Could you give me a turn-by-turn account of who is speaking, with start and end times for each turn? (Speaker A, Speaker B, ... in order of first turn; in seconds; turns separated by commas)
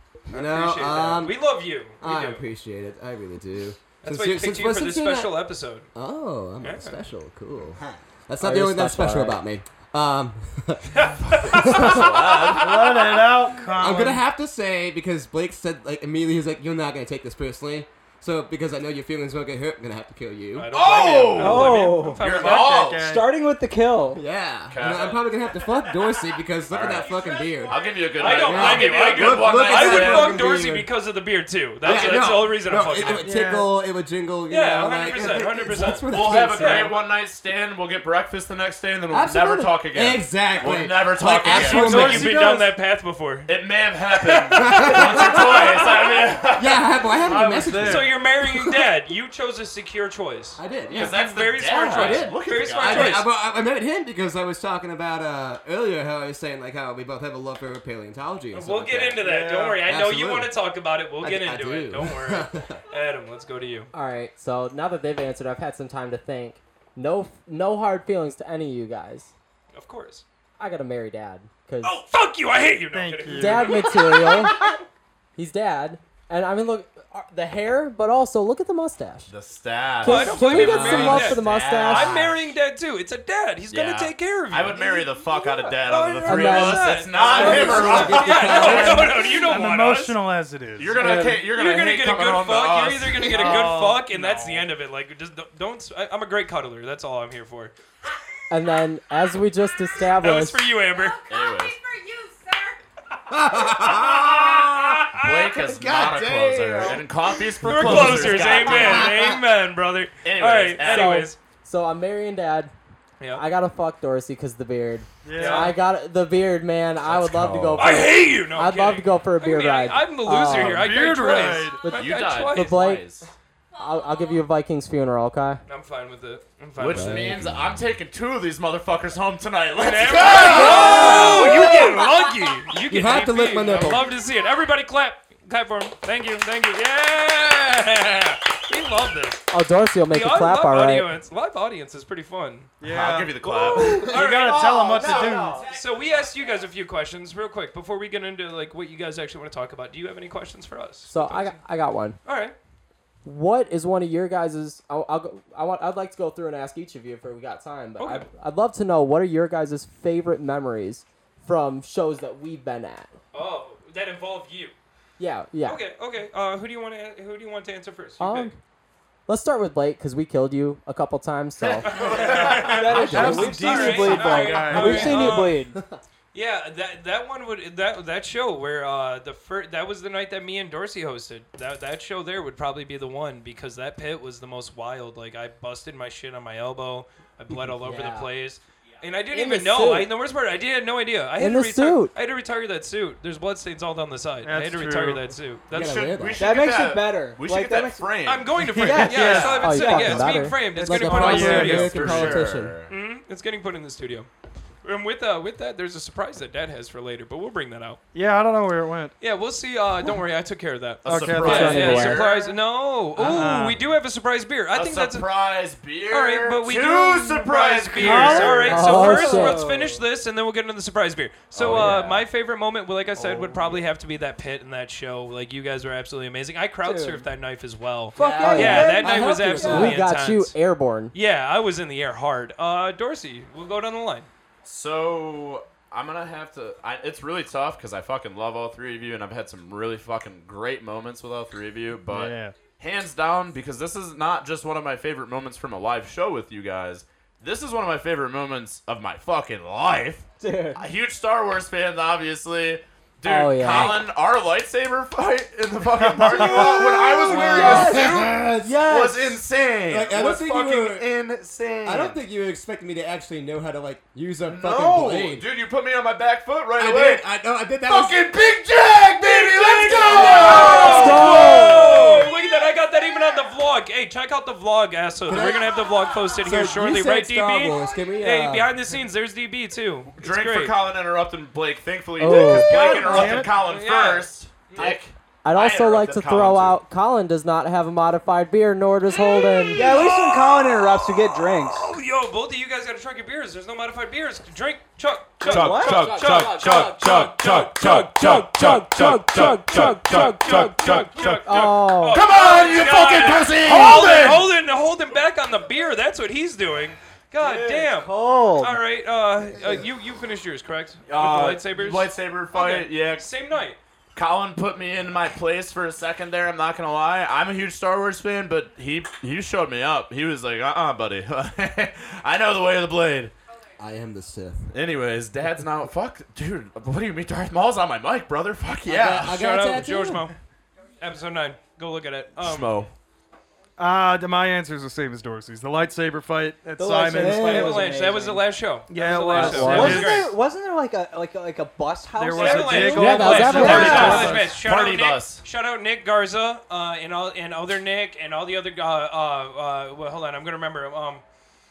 Speaker A: 0.3-1.4, Speaker B: 0.3-2.4, Speaker A: 2.0-5.4, Speaker B: 4.0-5.9, Speaker A: 5.9-12.6, Speaker B: 6.6-7.0, Speaker C: 8.4-9.4, Speaker B: 10.9-12.0, Speaker D: 11.2-12.9, Speaker E: 12.5-14.2, Speaker A: 13.6-20.7, Speaker B: 20.5-22.9, Speaker D: 20.7-23.0, Speaker F: 21.3-24.2, Speaker E: 22.3-23.3, Speaker A: 24.1-30.9, Speaker D: 24.7-25.3, Speaker D: 26.7-30.4, Speaker G: 26.8-28.2, Speaker B: 28.1-33.3, Speaker A: 31.8-36.9, Speaker D: 31.8-32.3, Speaker E: 33.2-33.7, Speaker B: 34.5-36.9, Speaker D: 36.1-42.3, Speaker A: 39.1-42.4, Speaker B: 41.5-43.6, Speaker E: 41.5-42.7, Speaker D: 43.5-46.8, Speaker B: 44.1-46.3, Speaker A: 44.6-45.6, Speaker A: 46.6-48.6, Speaker E: 47.3-48.1, Speaker B: 47.8-53.3, Speaker A: 50.6-51.2, Speaker D: 50.9-53.2, Speaker A: 51.9-59.2, Speaker B: 58.5-63.9, Speaker E: 59.2-59.8, Speaker A: 59.8-60.5, Speaker A: 61.2-62.8, Speaker C: 63.9-69.3, Speaker B: 69.7-70.2, Speaker C: 70.6-72.0, Speaker B: 71.8-74.7, Speaker E: 72.9-73.8, Speaker C: 73.3-74.8, Speaker C: 75.3-79.3, Speaker D: 79.3-82.5, Speaker C: 80.0-82.2, Speaker B: 80.0-84.9, Speaker A: 80.9-81.2, Speaker D: 83.7-89.1, Speaker B: 85.7-90.2, Speaker C: 86.2-89.1, Speaker A: 87.3-89.2, Speaker E: 89.2-91.1, Speaker D: 90.8-93.6, Speaker C: 91.0-91.4, Speaker B: 91.4-97.7, Speaker E: 93.2-94.7, Speaker C: 98.5-100.6, Speaker B: 100.2-101.2, Speaker G: 100.8-102.8, Speaker D: 101.3-101.8, Speaker A: 103.3-109.4, Speaker B: 103.9-105.5, Speaker D: 105.1-109.1, Speaker B: 107.6-111.4, Speaker D: 110.2-111.3, Speaker C: 110.8-112.7, Speaker C: 113.3-120.9, Speaker E: 115.2-115.8, Speaker B: 115.3-115.7, Speaker D: 117.0-118.1, Speaker A: 117.4-117.8, Speaker B: 117.8-122.7, Speaker E: 120.5-121.9, Speaker C: 121.8-123.0, Speaker D: 121.9-123.3, Speaker G: 123.7-124.5, Speaker C: 123.8-125.6, Speaker B: 125.7-127.4, Speaker D: 126.8-131.5, Speaker A: 126.8-127.7, Speaker B: 129.7-139.5, Speaker A: 130.2-132.1, Speaker C: 130.7-131.4, Speaker A: 132.9-134.1, Speaker C: 139.5-141.1, Speaker B: 140.1-142.7, Speaker E: 142.8-145.7, Speaker D: 142.8-144.2, Speaker B: 143.6-144.8, Speaker A: 143.8-145.7, Speaker B: 145.7-151.6, Speaker C: 151.1-152.2, Speaker B: 152.2-152.5, Speaker C: 153.2-163.2, Speaker B: 158.0-158.3, Speaker B: 163.3-164.7, Speaker C: 165.2-165.8, Speaker B: 165.6-168.5, Speaker C: 168.2-168.6, Speaker C: 169.3-172.2, Speaker B: 171.8-175.6, Speaker D: 171.9-173.1, Speaker E: 172.0-175.4, Speaker F: 172.4-175.8, Speaker C: 172.8-173.5, Speaker D: 174.2-175.2, Speaker B: 176.3-196.2, Speaker C: 187.8-188.3, Speaker C: 189.3-190.1, Speaker C: 191.4-192.1, Speaker E: 194.4-195.3, Speaker A: 195.7-196.4, Speaker D: 195.7-199.7, Speaker F: 196.4-198.1, Speaker B: 198.2-202.3, Speaker E: 198.7-199.6, Speaker F: 198.8-200.5, Speaker C: 199.5-202.4, Speaker A: 200.7-202.7, Speaker E: 200.8-201.9, Speaker D: 201.1-202.9, Speaker B: 202.9-204.3, Speaker B: 204.8-208.0, Speaker E: 208.1-209.1, Speaker B: 209.2-215.3, Speaker D: 211.0-212.4, Speaker E: 211.0-212.2, Speaker C: 211.4-212.2, Speaker E: 213.2-213.9, Speaker D: 214.7-218.8, Speaker B: 216.1-230.5, Speaker E: 218.0-218.7, Speaker F: 218.5-220.0, Speaker C: 218.6-219.6, Speaker D: 221.5-222.2, Speaker E: 223.3-223.8, Speaker F: 226.8-227.2, Speaker F: 228.1-230.0, Speaker A: 228.2-229.9, Speaker C: 228.4-231.1, Speaker B: 231.1-234.3, Speaker D: 234.7-262.2, Speaker E: 242.1-242.6, Speaker F: 250.4-250.8, Speaker C: 253.2-254.1, Speaker E: 255.9-257.5, Speaker A: 256.5-258.9, Speaker F: 257.2-259.4, Speaker A: 259.9-261.1, Speaker A: 261.8-265.4, Speaker D: 264.4-267.3, Speaker A: 266.8-268.3, Speaker D: 267.8-272.2, Speaker A: 269.6-271.1, Speaker B: 269.9-280.7, Speaker C: 270.4-272.2, Speaker A: 275.3-275.8, Speaker A: 276.4-278.7, Speaker D: 280.1-286.8, Speaker F: 282.2-282.7, Speaker C: 282.2-282.6, Speaker E: 282.2-283.6, Speaker B: 282.9-284.9, Speaker C: 285.4-289.9, Speaker B: 289.1-298.2, Speaker F: 289.7-291.9, Speaker F: 295.4-296.0, Speaker D: 295.4-304.5, Speaker C: 296.0-296.9, Speaker C: 297.9-302.3, Speaker B: 299.6-313.8, Speaker F: 307.4-308.8, Speaker D: 311.1-313.3, Speaker D: 314.1-323.3, Speaker A: 323.8-324.7, Speaker D: 324.7-329.4, Speaker A: 328.8-330.3, Speaker B: 329.2-330.3, Speaker B: 331.0-332.8, Speaker D: 332.4-332.9, Speaker E: 333.8-337.5, Speaker F: 336.8-338.5, Speaker A: 337.1-337.9, Speaker B: 337.3-340.3, Speaker E: 338.9-340.3, Speaker D: 339.3-339.9, Speaker F: 339.4-344.4, Speaker C: 339.7-340.0, Speaker E: 342.1-344.6, Speaker B: 342.3-351.2, Speaker C: 342.9-344.4, Speaker D: 343.8-345.4